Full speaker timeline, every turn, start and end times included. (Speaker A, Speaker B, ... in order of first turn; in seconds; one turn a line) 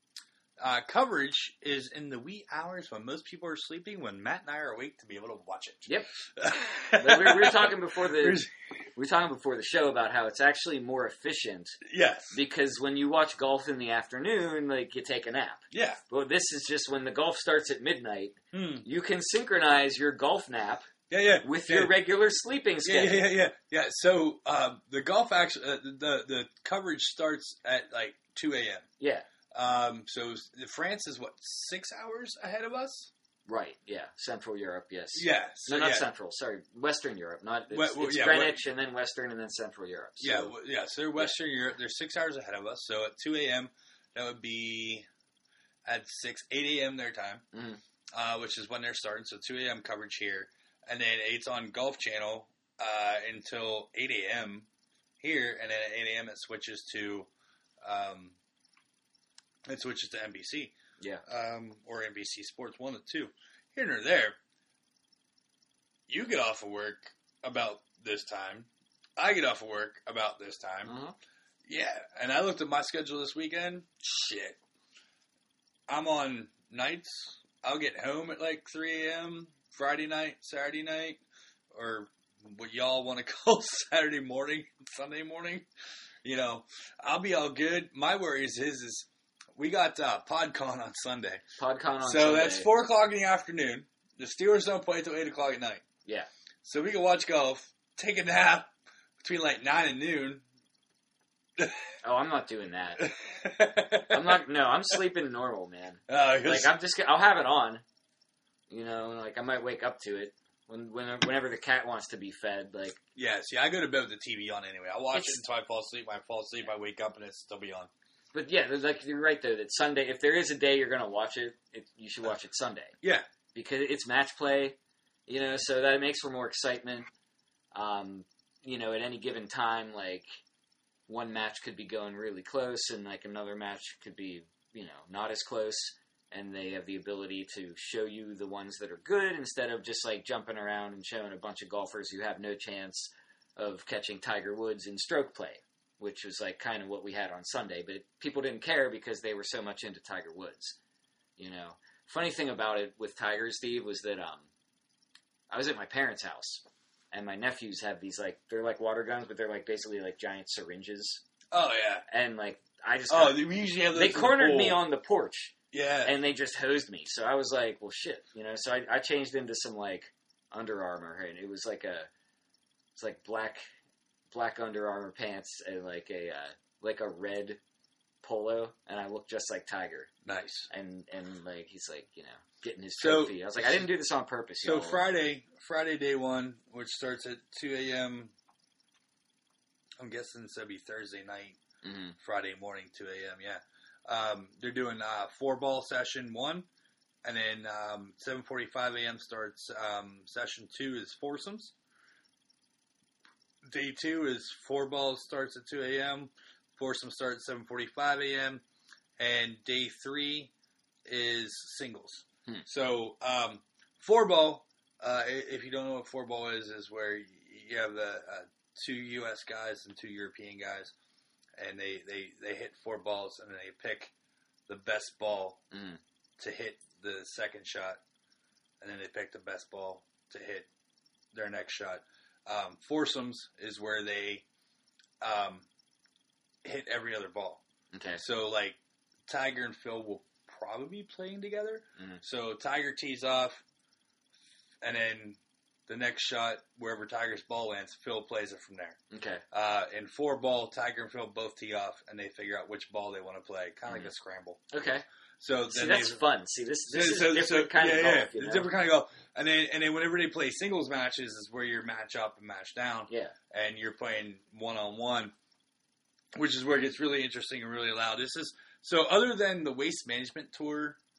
Speaker A: 0.6-8.5
Speaker B: 6.9-8.4
Speaker B: 8.9-11.8
Speaker A: 11.8-12.4
Speaker B: 12.3-20.9
Speaker A: 15.7-16.0
Speaker A: 18.5-18.8
Speaker A: 21.1-21.9
Speaker B: 21.4-23.3
Speaker A: 22.8-28.9
Speaker B: 29.0-29.2
Speaker A: 29.5-33.1
Speaker B: 33.5-40.5
Speaker A: 35.1-36.1
Speaker A: 37.7-38.6
Speaker A: 40.2-45.0
Speaker A: 45.8-47.4
Speaker B: 47.5-47.8
Speaker A: 48.1-54.7
Speaker A: 55.2-57.3
Speaker A: 57.8-58.4
Speaker A: 59.6-60.7
Speaker A: 61.2-64.4
Speaker A: 66.1-70.9
Speaker B: 70.8-71.1
Speaker A: 71.7-74.6
Speaker A: 75.9-81.2
Speaker A: 81.7-85.7
Speaker A: 86.2-91.4
Speaker B: 91.6-92.7
Speaker A: 92.0-95.8
Speaker A: 96.6-98.7
Speaker A: 99.2-100.4
Speaker B: 102.0-103.1
Speaker A: 103.0-104.4
Speaker B: 104.1-107.8
Speaker A: 106.1-106.7
Speaker B: 108.7-113.0
Speaker A: 113.2-117.9
Speaker B: 115.1-115.4
Speaker B: 118.3-123.0
Speaker B: 123.5-127.1
Speaker B: 127.7-130.4
Speaker B: 131.1-150.8
Speaker B: 151.4-154.5
Speaker B: 155.5-161.2
Speaker A: 161.5-162.0
Speaker B: 162.1-172.1
Speaker A: 163.1-164.8
Speaker A: 165.7-166.2
Speaker B: 172.9-173.6
Speaker B: 174.3-177.6
Speaker B: 178.2-180.1
Speaker A: 180.2-180.7
Speaker B: 180.7-185.0
Speaker A: 183.0-183.9
Speaker A: 184.6-188.3
Speaker A: 190.0-191.6
Speaker B: 191.8-192.2
Speaker A: 192.2-196.7
Speaker A: 197.2-201.7
Speaker A: 203.6-208.6
Speaker A: 209.2-210.5
Speaker A: 211.1-220.9
Speaker A: 221.6-224.1
Speaker A: 224.7-225.6
Speaker B: 225.7-226.0
Speaker A: 226.4-228.0
Speaker A: 228.8-230.7
Speaker A: 231.3-234.4
Speaker A: 235.2-235.7
Speaker A: 236.6-237.6
Speaker B: 237.9-238.2
Speaker A: 238.2-243.6
Speaker B: 242.0-242.2
Speaker A: 244.8-249.0
Speaker B: 249.1-249.4
Speaker A: 249.5-254.7
Speaker B: 254.7-255.0
Speaker A: 255.4-256.2
Speaker B: 255.7-258.7
Speaker A: 256.9-265.3
Speaker B: 263.1-263.3
Speaker A: 266.3-271.0